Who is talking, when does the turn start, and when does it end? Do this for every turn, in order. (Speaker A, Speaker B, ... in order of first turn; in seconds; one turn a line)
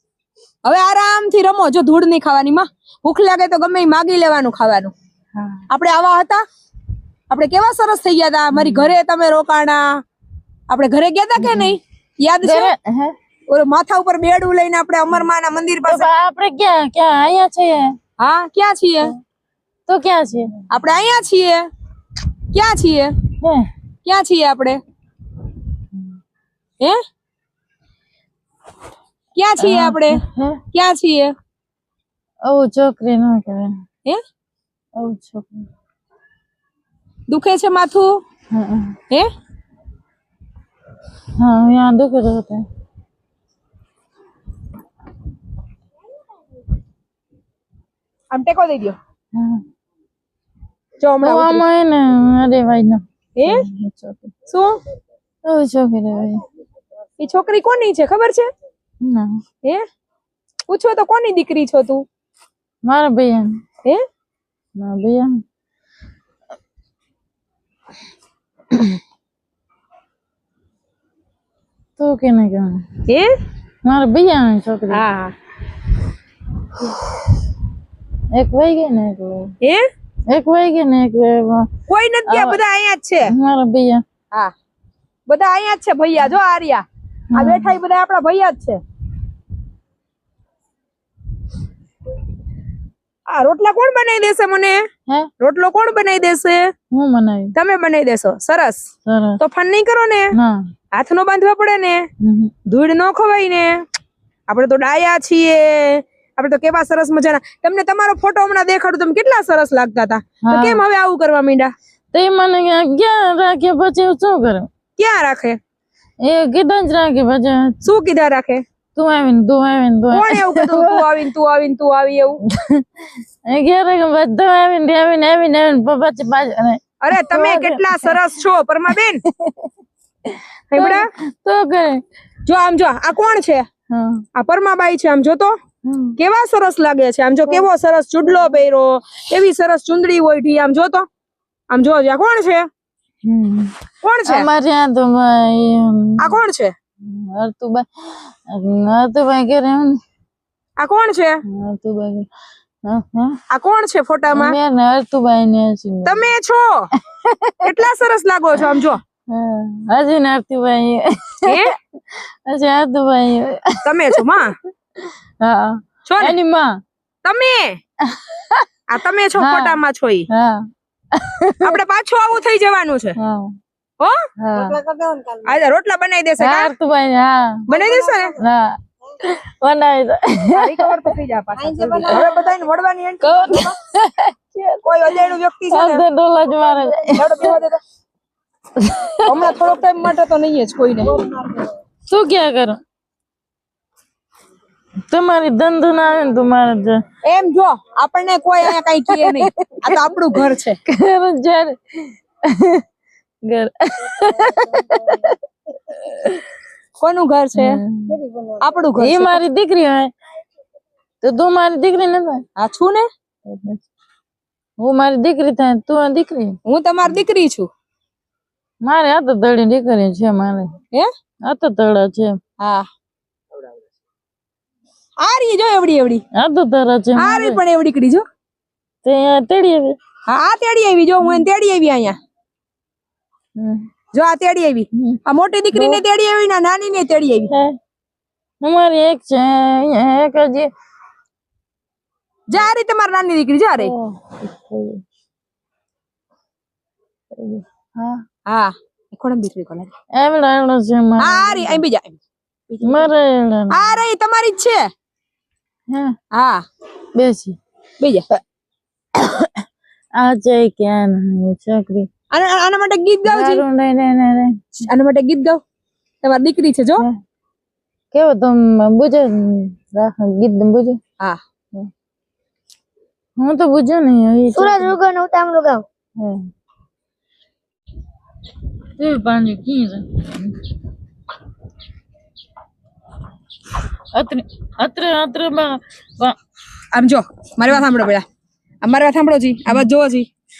Speaker A: 0.7-4.9
Speaker A: 5.7-6.4
Speaker A: 7.3-10.0
Speaker B: 8.5-8.9
Speaker A: 10.7-12.7
Speaker B: 11.4-11.8
Speaker B: 12.4-13.1
Speaker A: 13.5-16.1
Speaker B: 15.8-18.0
Speaker A: 18.2-19.1
Speaker B: 19.9-20.6
Speaker A: 20.7-21.7
Speaker A: 22.5-23.1
Speaker B: 23.4-23.7
Speaker A: 24.1-24.8
Speaker A: 29.4-30.2
Speaker B: 29.6-30.6
Speaker A: 30.7-31.3
Speaker B: 32.5-33.7
Speaker B: 35.0-35.7
Speaker A: 37.3-38.2
Speaker B: 38.5-39.0
Speaker B: 41.4-42.6
Speaker A: 48.3-49.0
Speaker B: 49.4-49.6
Speaker A: 51.0-51.6
Speaker B: 51.2-54.3
Speaker A: 53.4-53.6
Speaker A: 54.5-54.8
Speaker B: 55.5-56.4
Speaker A: 57.2-58.5
Speaker B: 59.0-59.4
Speaker A: 60.7-62.0
Speaker B: 62.9-63.6
Speaker B: 64.8-65.3
Speaker B: 72.0-72.8
Speaker A: 73.1-73.3
Speaker B: 73.9-75.0
Speaker A: 74.9-75.3
Speaker B: 78.3-79.5
Speaker B: 80.3-81.7
Speaker A: 81.9-83.3
Speaker B: 82.3-82.6
Speaker B: 83.3-84.0
Speaker A: 85.3-88.8
Speaker B: 87.3-87.8
Speaker A: 93.3-94.8
Speaker A: 95.4-96.7
Speaker B: 96.9-97.5
Speaker A: 97.6-98.8
Speaker B: 99.1-99.4
Speaker A: 99.4-100.3
Speaker A: 100.9-102.0
Speaker B: 102.2-102.5
Speaker A: 102.7-103.8
Speaker A: 104.5-111.7
Speaker B: 110.4-110.8
Speaker B: 112.1-114.7
Speaker A: 115.0-115.6
Speaker B: 116.2-117.8
Speaker A: 117.8-118.6
Speaker B: 119.0-121.0
Speaker A: 120.1-122.4
Speaker B: 123.5-128.2
Speaker A: 127.0-129.2
Speaker A: 130.7-131.1
Speaker B: 130.7-132.0
Speaker A: 132.5-133.7
Speaker B: 133.9-134.2
Speaker A: 134.3-135.6
Speaker B: 135.9-136.2
Speaker A: 136.2-141.1
Speaker A: 141.7-142.7
Speaker B: 143.2-143.7
Speaker A: 144.0-144.5
Speaker B: 144.3-146.4
Speaker A: 146.2-146.7
Speaker B: 147.0-150.0
Speaker A: 150.8-151.4
Speaker B: 151.5-152.3
Speaker B: 152.8-153.4
Speaker A: 153.5-154.6
Speaker B: 154.3-156.3
Speaker A: 156.1-156.9
Speaker B: 157.2-157.7
Speaker A: 157.6-159.0
Speaker B: 159.3-163.9
Speaker A: 161.5-161.7
Speaker A: 163.8-164.6
Speaker B: 165.4-166.8
Speaker A: 166.1-166.4
Speaker A: 167.2-167.8
Speaker B: 168.1-168.7
Speaker A: 168.9-170.3
Speaker B: 169.4-169.8
Speaker B: 170.3-171.8
Speaker A: 171.6-173.2
Speaker B: 173.2-173.5
Speaker A: 174.0-176.7
Speaker B: 174.4-174.8
Speaker C: 175.2-175.6
Speaker B: 176.4-177.7
Speaker A: 177.7-178.3
Speaker C: 177.8-178.1
Speaker B: 178.4-181.0
Speaker A: 180.5-183.7
Speaker C: 181.7-182.2
Speaker B: 181.9-182.4
Speaker B: 183.3-185.2
Speaker A: 184.8-186.0
Speaker B: 185.7-187.5
Speaker A: 187.1-187.8
Speaker B: 188.8-189.4
Speaker A: 189.3-191.3
Speaker B: 192.1-192.8
Speaker B: 195.1-197.0
Speaker A: 197.2-200.8
Speaker B: 198.7-200.0
Speaker B: 200.9-202.8
Speaker B: 203.5-205.4
Speaker C: 204.5-205.0
Speaker B: 205.9-206.4
Speaker A: 207.0-207.8
Speaker B: 207.6-208.2
Speaker A: 208.6-209.4
Speaker B: 209.0-210.1
Speaker B: 211.2-212.4
Speaker A: 212.6-213.1
Speaker B: 213.5-213.8
Speaker B: 214.8-216.6
Speaker A: 216.7-217.7
Speaker B: 218.8-220.7
Speaker B: 221.5-222.4
Speaker A: 222.6-222.9
Speaker A: 225.2-226.2
Speaker B: 226.4-227.6
Speaker A: 227.2-228.2
Speaker B: 229.0-230.0
Speaker A: 230.3-232.2
Speaker B: 233.6-233.9
Speaker A: 234.1-237.5
Speaker B: 235.7-236.0
Speaker B: 237.5-237.7
Speaker B: 238.6-240.7
Speaker A: 242.5-243.9
Speaker B: 243.8-245.0
Speaker B: 247.3-248.2
Speaker A: 248.5-249.9
Speaker B: 250.2-251.8
Speaker A: 251.2-253.1
Speaker B: 252.8-254.0
Speaker A: 253.7-254.8
Speaker A: 256.3-256.6
Speaker B: 257.2-257.6
Speaker A: 258.0-258.2
Speaker B: 259.1-259.5
Speaker B: 260.2-262.1
Speaker A: 262.3-263.6
Speaker B: 263.3-264.6
Speaker A: 264.8-265.6
Speaker A: 266.2-267.1
Speaker B: 268.1-271.0
Speaker B: 273.4-275.0
Speaker C: 274.8-275.8
Speaker B: 276.2-276.4
Speaker B: 279.0-280.5
Speaker B: 284.1-286.4
Speaker A: 286.9-288.2
Speaker A: 288.8-290.3